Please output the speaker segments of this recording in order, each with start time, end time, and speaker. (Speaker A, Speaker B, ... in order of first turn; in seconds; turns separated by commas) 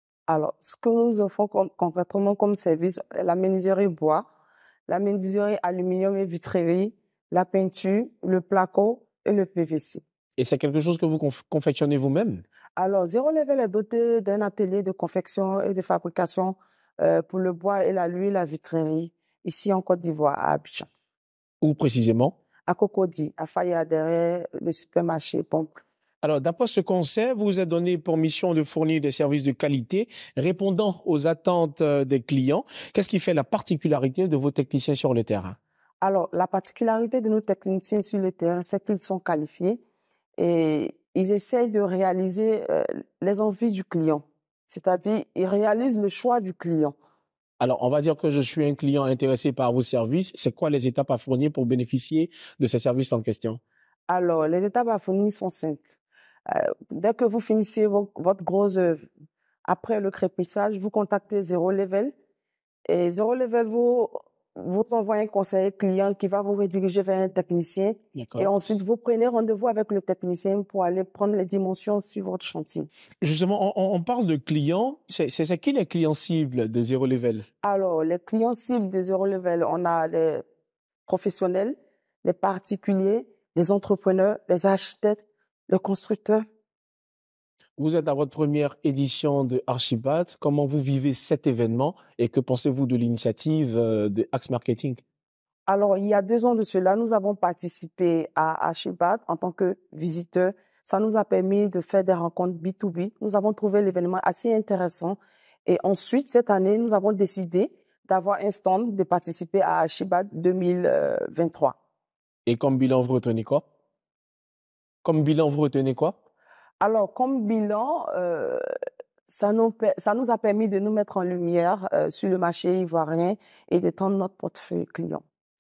Speaker A: 0.3-4.3, Speaker A: 4.9-10.0, Speaker B: 10.4-12.4, Speaker A: 12.8-20.9, Speaker B: 21.6-22.4, Speaker A: 22.7-25.8, Speaker B: 26.2-35.6, Speaker A: 36.0-39.8, Speaker A: 40.4-47.0, Speaker B: 47.6-53.6, Speaker A: 54.1-55.8, Speaker A: 56.5-59.1, Speaker A: 59.6-62.1, Speaker A: 62.9-72.9, Speaker B: 68.2-68.5, Speaker B: 73.2-77.5, Speaker A: 77.6-80.4, Speaker A: 81.1-86.4, Speaker B: 87.8-95.0, Speaker A: 95.7-111.8, Speaker B: 112.5-113.6, Speaker B: 115.0-116.2, Speaker A: 116.8-118.6, Speaker A: 119.3-125.2